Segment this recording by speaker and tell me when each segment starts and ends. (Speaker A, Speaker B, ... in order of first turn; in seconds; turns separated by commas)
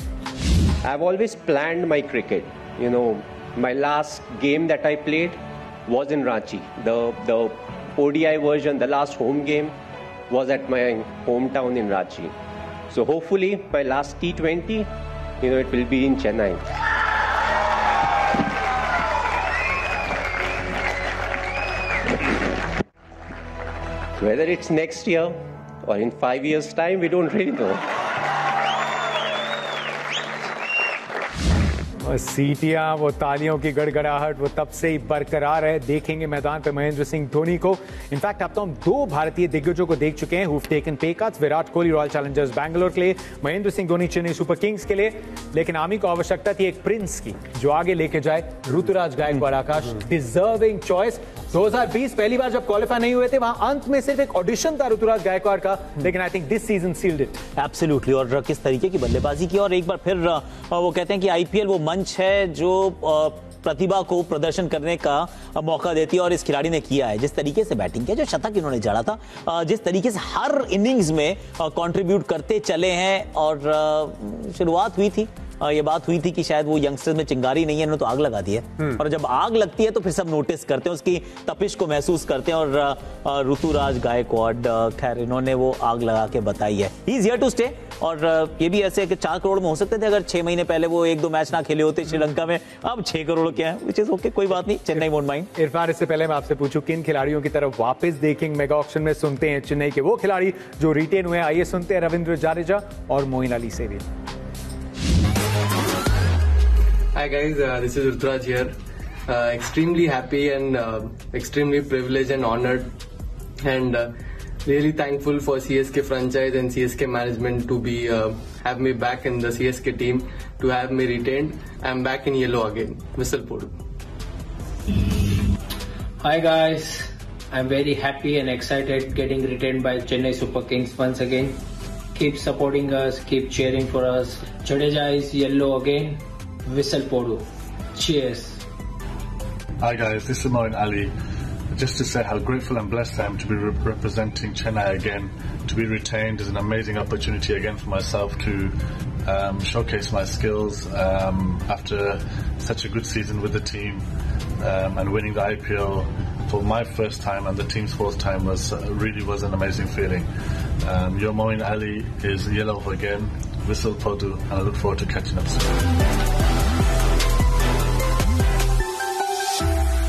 Speaker A: 0.8-9.7, Speaker A: 10.3-12.3, Speaker A: 12.9-14.9, Speaker A: 15.4-16.6, Speaker A: 24.2-27.9, Speaker B: 32.0-57.4, Speaker C: 57.5-95.5, Speaker B: 95.5-104.0, Speaker D: 107.1-112.9, Speaker D: 113.6-123.7, Speaker E: 126.2-131.6, Speaker E: 132.1-138.6, Speaker F: 139.8-141.1, Speaker F: 141.7-154.1, Speaker F: 154.6-160.3, Speaker F: 160.8-165.9